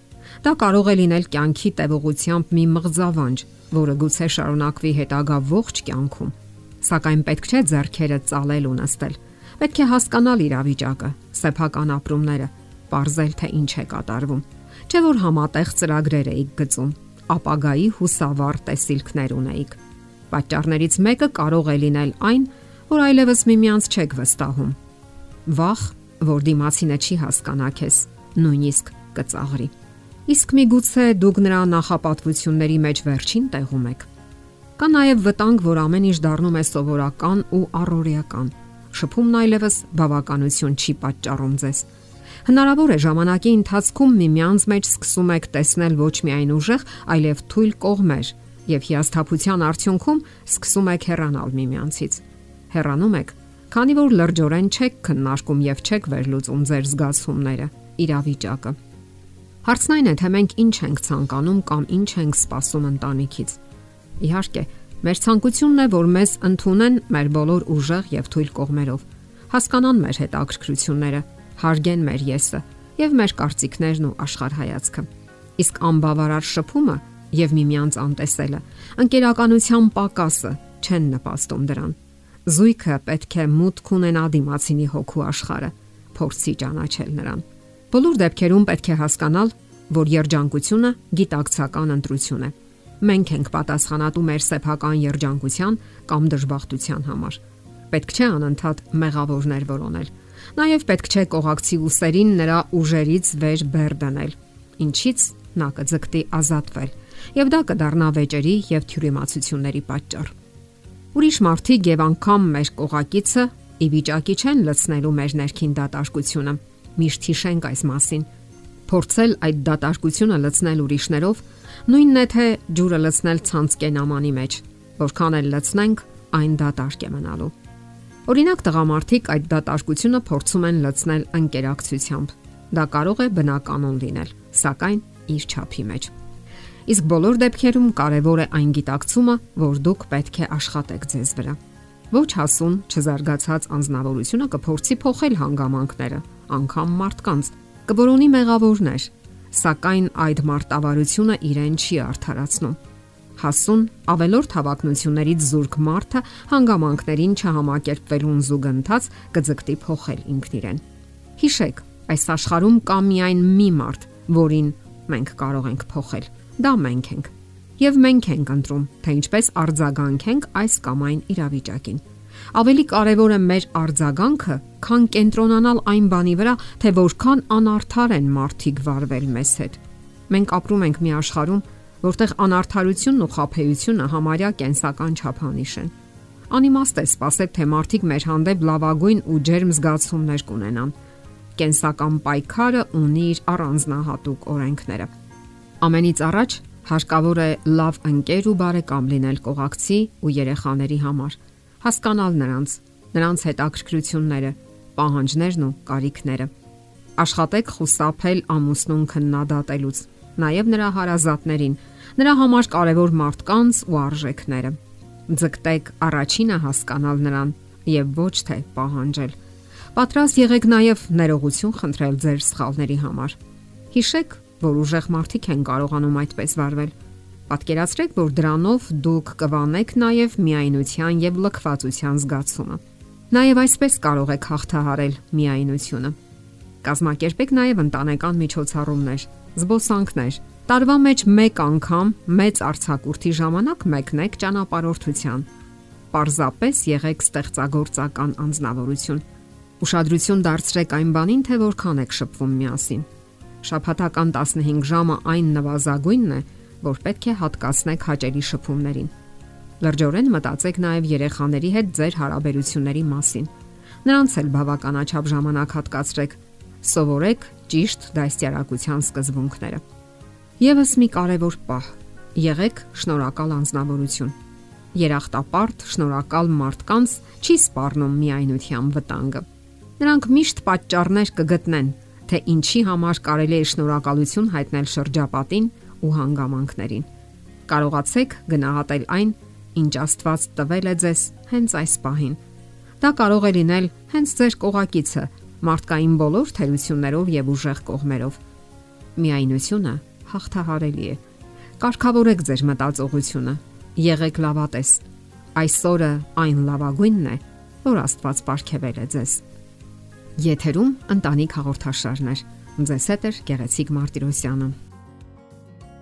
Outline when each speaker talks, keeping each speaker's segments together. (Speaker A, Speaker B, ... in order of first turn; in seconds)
Speaker A: 0.4-19.8, 20.3-24.8, 25.4-29.7, 30.3-34.1, 34.8-41.9, 42.4-58.8, 59.6-63.6, 64.2-110.3, 111.1-118.3, 118.9-127.5, 128.3-136.1, 136.9-141.6, 142.1-152.8, 153.3-160.8, 161.4-185.9, 186.5-190.9, 191.6-195.1, 195.8-206.5, 207.2-219.3, 219.9-223.4, 223.9-226.9, 227.5-236.1, 236.8-245.5, 246.1-249.2, 249.8-253.1, 253.6-259.1, 259.8-263.5, 264.0-269.8, 270.6-274.3, 274.9-279.4, 280.0-287.1, 287.7-292.4, 293.0-298.4, 299.1-301.2, 301.8-309.4, 310.4-314.7